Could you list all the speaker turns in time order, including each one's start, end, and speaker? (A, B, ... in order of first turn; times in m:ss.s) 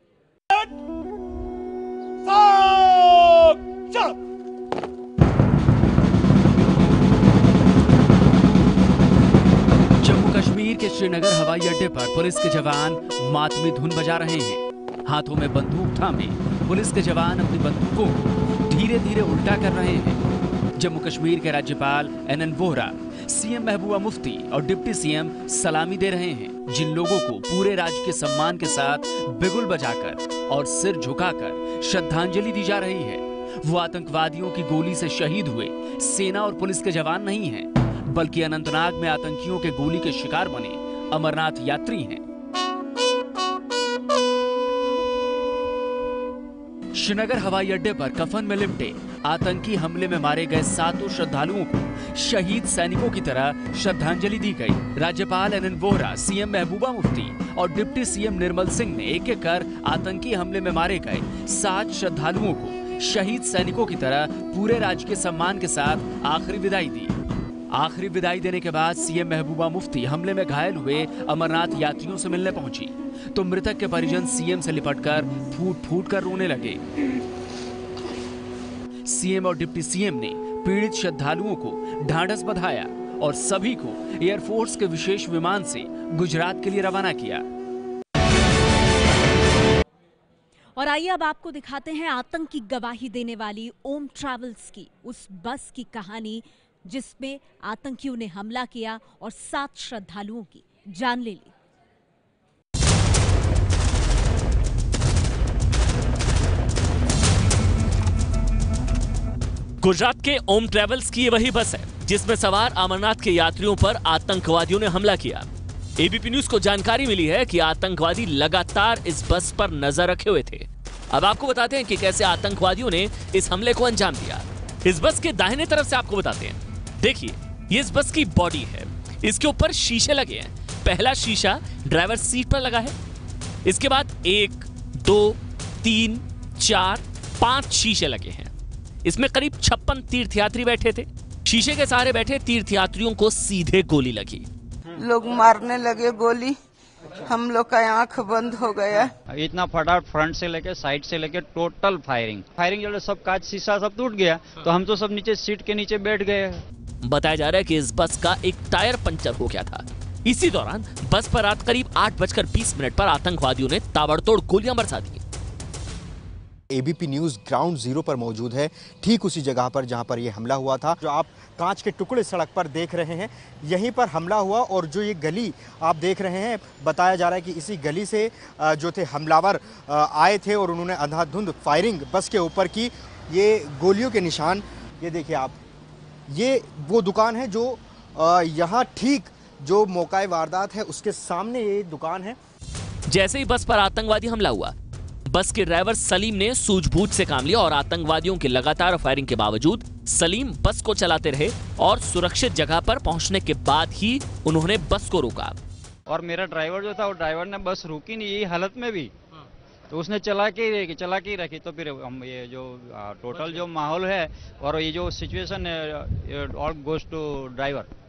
0:10.0-0:20.2 A
0:20.8-0:42.2 A
0:46.9-1:07.2 A
1:07.7-1:16.8 A
1:19.0-1:27.4 A
1:30.8-1:41.5 B
1:49.8-2:13.0 C
2:13.6-2:18.5 C
2:19.0-2:24.5 C
2:25.0-2:26.6 D
2:27.2-2:29.1 D
2:29.3-2:36.6 E
2:37.0-2:45.2 C
2:46.7-3:05.6 F
3:06.3-3:12.4 F
3:13.1-3:14.8 C
3:15.3-3:25.6 C
3:26.1-3:29.1 E
3:29.9-3:37.9 E